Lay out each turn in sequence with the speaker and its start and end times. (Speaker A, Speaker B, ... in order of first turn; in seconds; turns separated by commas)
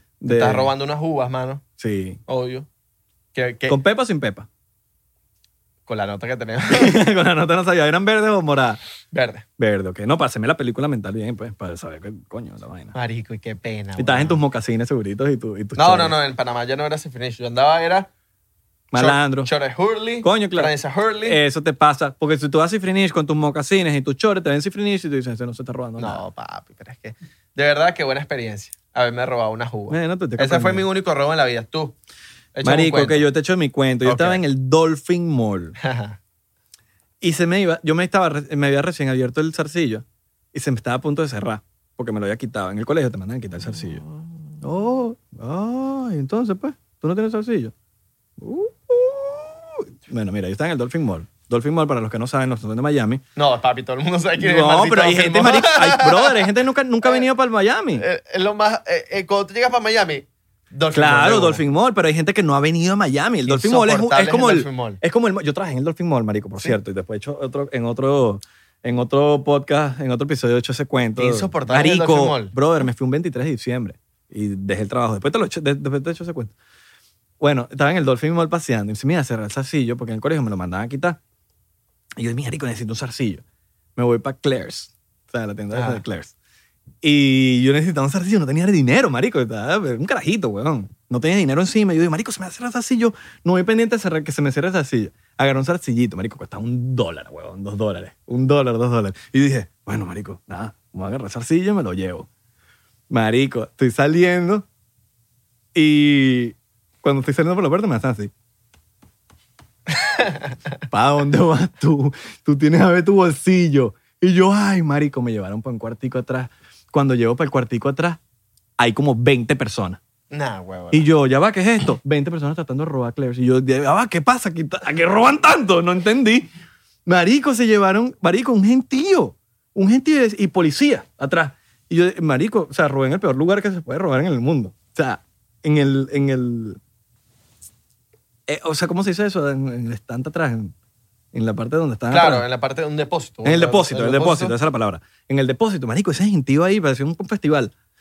Speaker A: 0.2-0.7, Speaker B: 0.3-1.6, Speaker A: 1.8-2.2, Speaker B: 2.3-2.7, Speaker B: 3.3-3.8, Speaker A: 3.7-4.5, Speaker B: 5.9-7.0, Speaker A: 6.7-8.8, Speaker B: 9.1-9.5, Speaker A: 9.6-12.9, Speaker B: 12.9-14.4, Speaker A: 14.0-16.2, Speaker B: 15.8-18.1, Speaker A: 18.9-19.5, Speaker B: 18.9-21.4, Speaker A: 20.2-26.2, Speaker B: 26.0-32.0, Speaker A: 29.9-30.9, Speaker B: 32.5-33.3, Speaker A: 32.6-35.8, Speaker B: 34.0-34.4, Speaker B: 35.8-36.2, Speaker A: 37.2-44.0, Speaker B: 43.7-44.3, Speaker A: 44.6-47.7, Speaker A: 48.4-53.2, Speaker B: 53.4-56.5, Speaker A: 54.4-58.0, Speaker B: 58.0-61.6, Speaker A: 60.9-76.5, Speaker B: 63.5-65.0, Speaker B: 71.2-72.5, Speaker A: 77.4-81.2, Speaker A: 82.2-83.4, Speaker A: 84.0-86.3, Speaker B: 85.7-86.0, Speaker A: 87.0-102.3, Speaker A: 103.1-104.7, Speaker A: 105.8-108.3, Speaker B: 110.0-110.5, Speaker A: 110.9-118.2, Speaker A: 118.8-120.0, Speaker B: 120.3-121.1, Speaker A: 120.9-126.5, Speaker A: 127.1-136.8, Speaker A: 138.5-140.7, Speaker A: 141.3-142.5, Speaker B: 142.1-144.6, Speaker A: 143.4-147.7